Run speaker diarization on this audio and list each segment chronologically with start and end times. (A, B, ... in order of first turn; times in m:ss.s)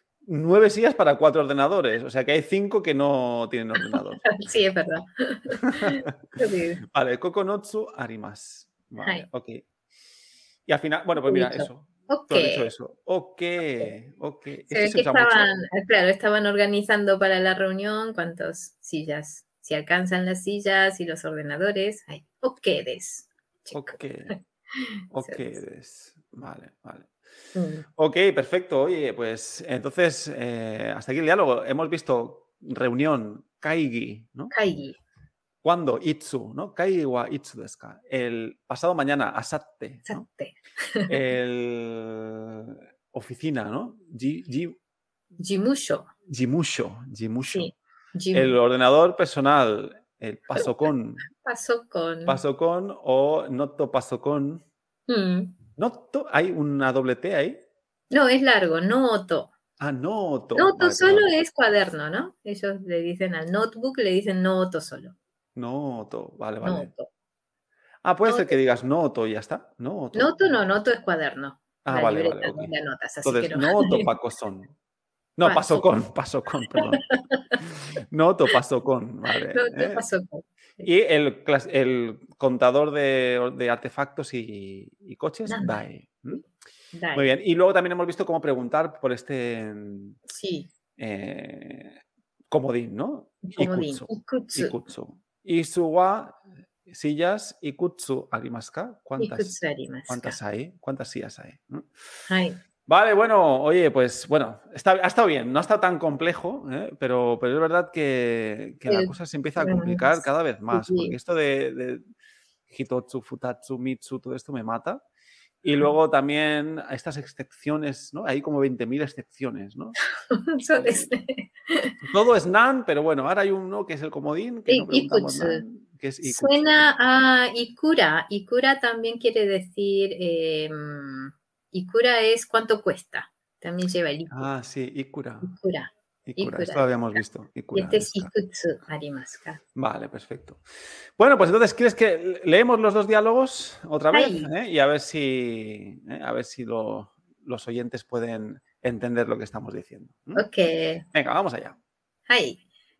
0:00.2-0:04.2 A
0:03.8-0:06.8 B
0:05.8-0:06.1 A
0:06.9-0:09.6 A
0:09.0-0:09.3 B
0:10.7-0:15.6 A
0:11.2-0:12.7 B
0:14.7-0:25.6 B
0:23.7-0:24.3 A
0:25.1-0:27.1 A
0:27.5-0:27.8 B
0:28.0-0:34.5 A
0:34.5-0:35.0 B
0:35.6-0:40.2 A
0:40.0-0:41.2 B
0:41.1-0:44.8 A
0:45.4-0:46.1 B
0:46.3-0:47.7 A
0:47.5-0:48.6 B
0:48.3-0:51.2 A
0:51.3-0:52.4 B
0:52.2-0:54.6 A
0:55.1-0:55.6 B
0:55.8-0:57.6 A
0:58.1-0:59.5 B
0:59.8-1:01.3 A
1:00.6-1:05.1 B
1:05.6-1:06.9 A
1:06.6-1:07.1 B
1:08.0-1:10.6 A
1:08.2-1:08.6 B
1:10.1-1:14.1 B
1:11.8-1:14.7 A
1:15.4-1:17.0 A
1:15.4-1:15.9 B
1:17.1-1:17.6 B
1:18.1-1:20.0 A
1:19.5-1:20.8 B
1:20.8-1:26.4 A
1:25.5-1:25.8 B
1:26.9-1:27.3 B
1:27.1-1:30.2 A
1:30.3-1:30.7 B
1:31.0-1:41.9 A
1:33.4-1:34.8 B
1:39.2-1:40.4 B
1:42.3-1:42.6 B
1:42.8-1:52.0 A
1:48.9-1:51.2 B
1:52.7-1:55.0 A
1:55.6-2:00.0 A
2:00.3-2:01.9 B
2:00.8-2:01.1 A
2:02.0-2:06.9 A
2:04.7-2:05.6 B
2:06.2-2:14.5 B
2:14.3-2:15.5 A
2:15.4-2:16.9 B
2:16.2-2:18.3 A
2:17.7-2:19.6 B
2:19.7-2:20.6 A
2:21.2-2:30.4 A
2:24.1-2:24.5 B
2:30.3-2:31.0 B
2:31.1-2:31.8 A
2:32.3-2:32.6 B